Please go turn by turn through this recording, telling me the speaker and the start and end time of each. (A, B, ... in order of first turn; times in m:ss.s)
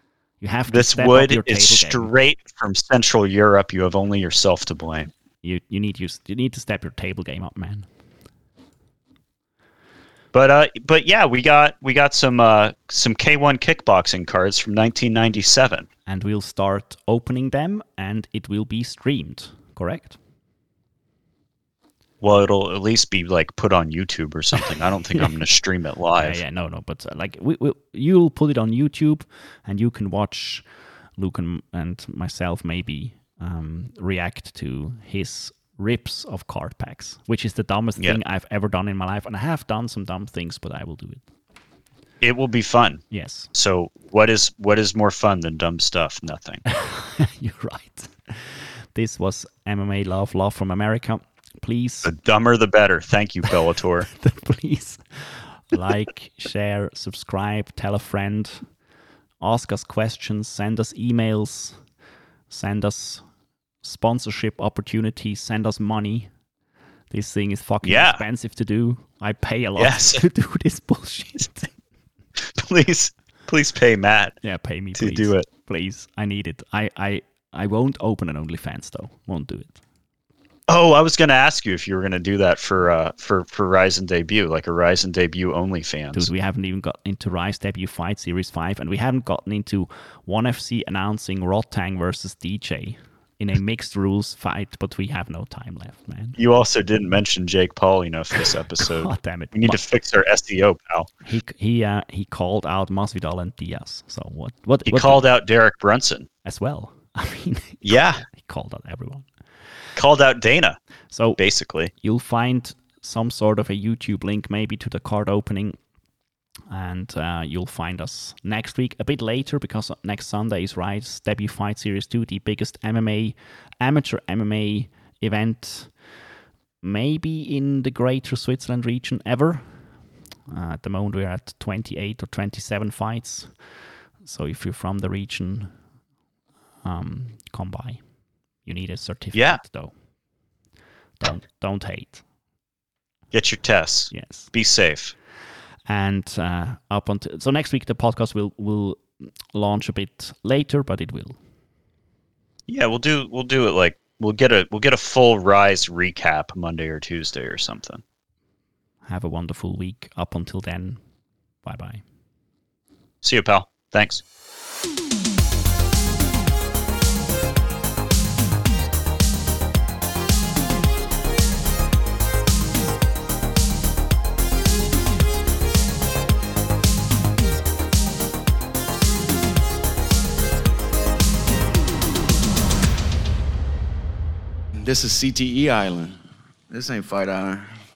0:00.4-0:02.1 A
0:00.7-0:05.1 B
0:05.4-0:07.9 A
0:10.3-0:15.9 B
0:16.1-0:20.2 A
0:22.2-0:26.4 B
0:26.2-0:41.2 A
0:42.2-0:46.6 B
0:43.1-0:43.5 A
0:46.7-0:52.1 A
0:52.0-0:54.1 B
0:54.1-0:58.7 A
0:59.4-1:01.8 A
1:02.5-1:03.2 A
1:03.8-1:06.3 A
1:07.1-1:11.7 A
1:07.8-1:08.2 B
1:09.8-1:10.2 B
1:12.4-1:14.4 B
1:14.4-1:19.8 A
1:15.0-1:15.5 B
1:20.7-1:26.3 B
1:26.1-1:36.4 A
1:36.4-1:41.1 B
1:39.0-1:39.8 A
1:41.2-1:45.3 A
1:44.9-1:46.3 B
1:46.4-1:49.3 A
1:47.8-1:48.2 B
1:50.0-1:50.8 B
1:51.1-1:51.4 A
1:51.4-1:51.9 B
1:52.0-1:55.8 A
1:56.7-2:05.9 A
2:06.8-2:09.9 A
2:10.5-2:15.8 A
2:16.8-2:18.0 A
2:18.6-2:19.9 A
2:19.3-2:19.6 B
2:21.2-2:22.2 A
2:23.3-2:25.1 B
2:24.1-2:24.5 A
2:25.9-2:31.4 A
2:32.7-2:38.0 B
2:39.1-2:41.0 A
2:41.6-2:42.0 A
2:43.2-2:44.2 B
3:04.8-3:06.2 C
3:06.7-3:07.7 C